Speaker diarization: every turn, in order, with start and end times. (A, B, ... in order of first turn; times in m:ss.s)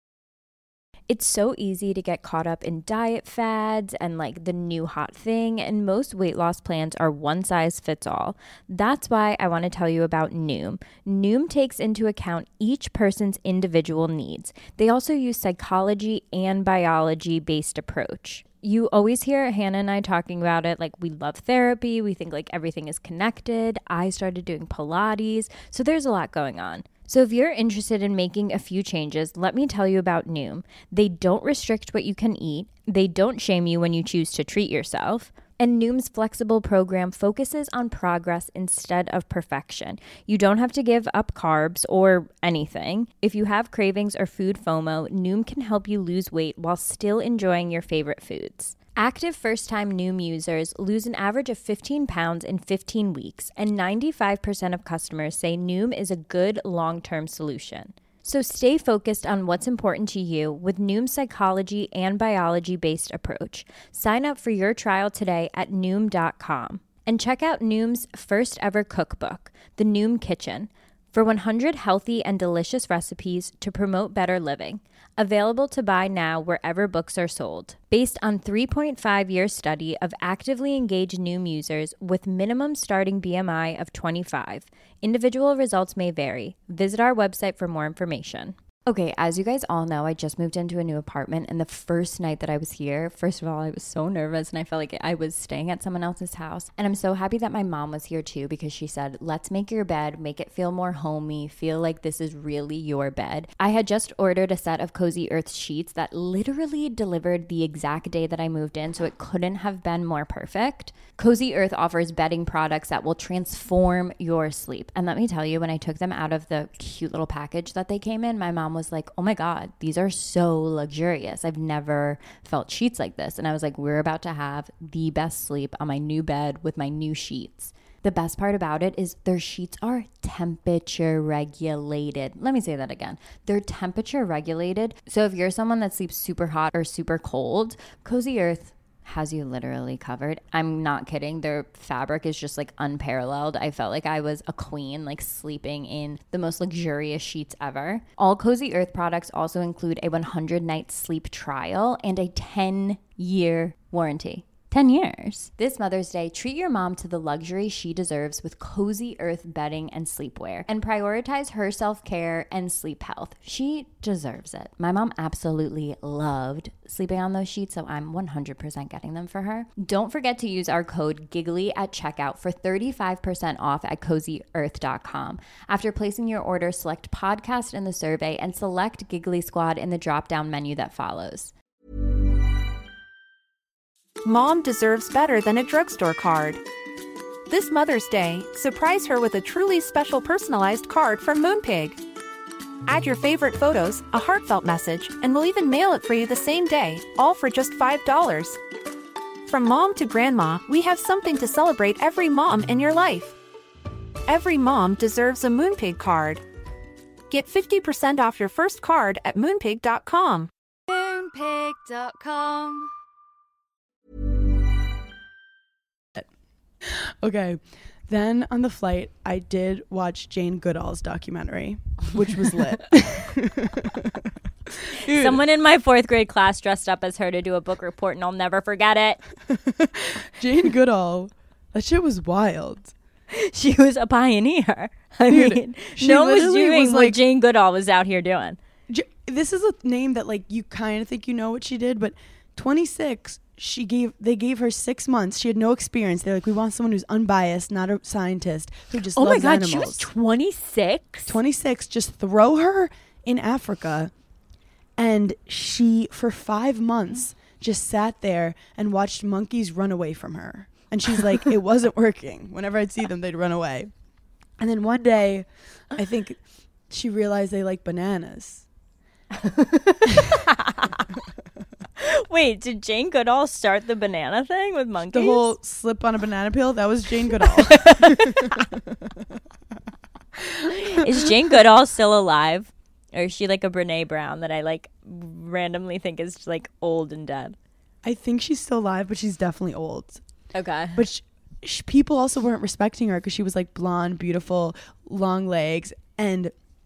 0:01.1-3:01.5 A
3:04.2-3:06.6 B
3:07.5-3:12.0 B
3:12.9-3:18.6 B
3:19.5-3:23.4 B
3:24.3-3:26.4 B
3:27.3-3:30.5 B
3:30.9-3:32.9 A
3:36.8-3:45.4 C
3:45.0-3:49.2 A
3:49.5-3:52.9 C
3:53.3-3:58.6 A
3:55.3-3:57.2 C
3:58.9-4:10.1 C
4:09.1-4:11.4 A
4:11.3-4:14.1 C
4:15.0-4:23.9 C
4:24.6-4:28.7 C
4:29.4-4:31.1 A
4:32.0-4:35.5 A
4:35.1-4:39.2 C
4:37.5-4:38.7 A
4:40.4-4:41.3 C
4:40.6-4:47.6 A
4:48.0-4:50.2 C
4:50.5-4:51.0 A
4:51.0-4:56.5 C